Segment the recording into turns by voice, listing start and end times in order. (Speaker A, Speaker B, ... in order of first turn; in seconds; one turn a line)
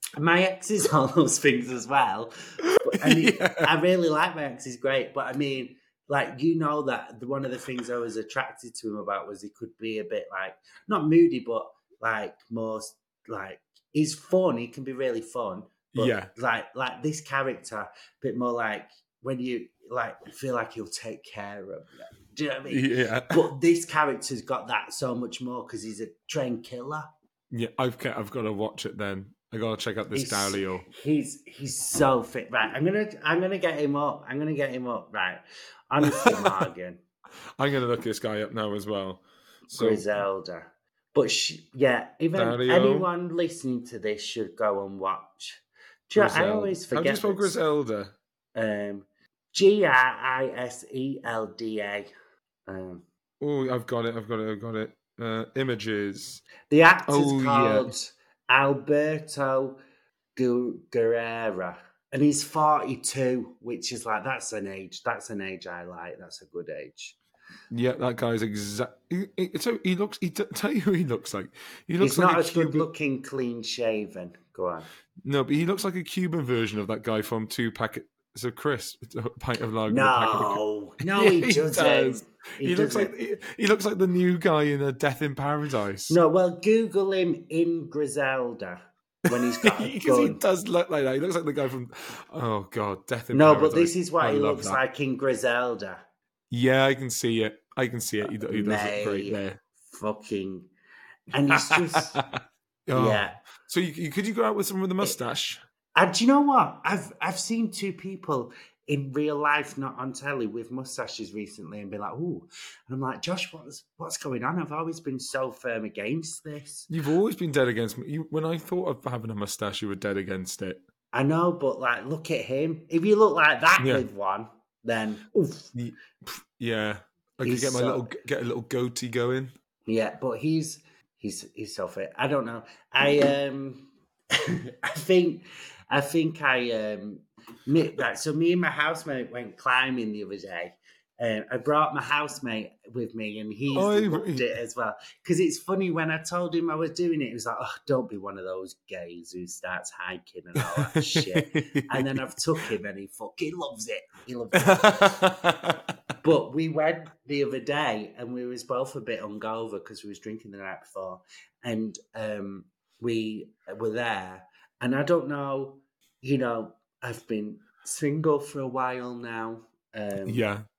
Speaker A: 0.1-27.1
Speaker B: 2.6-3.7
Speaker B: 15.9-16.3
Speaker B: 22.7-23.4
Speaker B: 27.5-30.9
Speaker A: 30.1-37.0
Speaker B: 36.0-36.5
Speaker B: 37.6-39.2
Speaker A: 39.7-47.6
Speaker B: 39.7-40.0
Speaker B: 42.3-43.1
Speaker B: 46.1-48.1
Speaker A: 48.5-52.1
Speaker A: 52.7-53.0
Speaker B: 53.4-56.4
Speaker A: 56.7-59.8
Speaker B: 57.1-57.9
Speaker A: 60.4-67.2
Speaker B: 67.7-72.9
Speaker A: 72.0-74.9
Speaker B: 75.2-86.2
Speaker A: 79.9-83.1
Speaker A: 86.1-90.4
Speaker B: 89.6-94.8
Speaker A: 93.3-96.0
Speaker B: 96.5-99.6
Speaker A: 98.5-100.7
Speaker A: 101.3-102.2
Speaker B: 101.5-105.6
Speaker A: 102.9-103.4
Speaker A: 106.0-116.9
Speaker B: 116.9-120.8
Speaker A: 121.1-125.7
Speaker B: 125.7-129.5
Speaker A: 127.4-128.1
Speaker A: 129.9-155.2
Speaker B: 143.7-144.4
Speaker B: 150.8-152.2
Speaker B: 154.7-155.8
Speaker A: 156.2-170.4
Speaker B: 170.2-170.7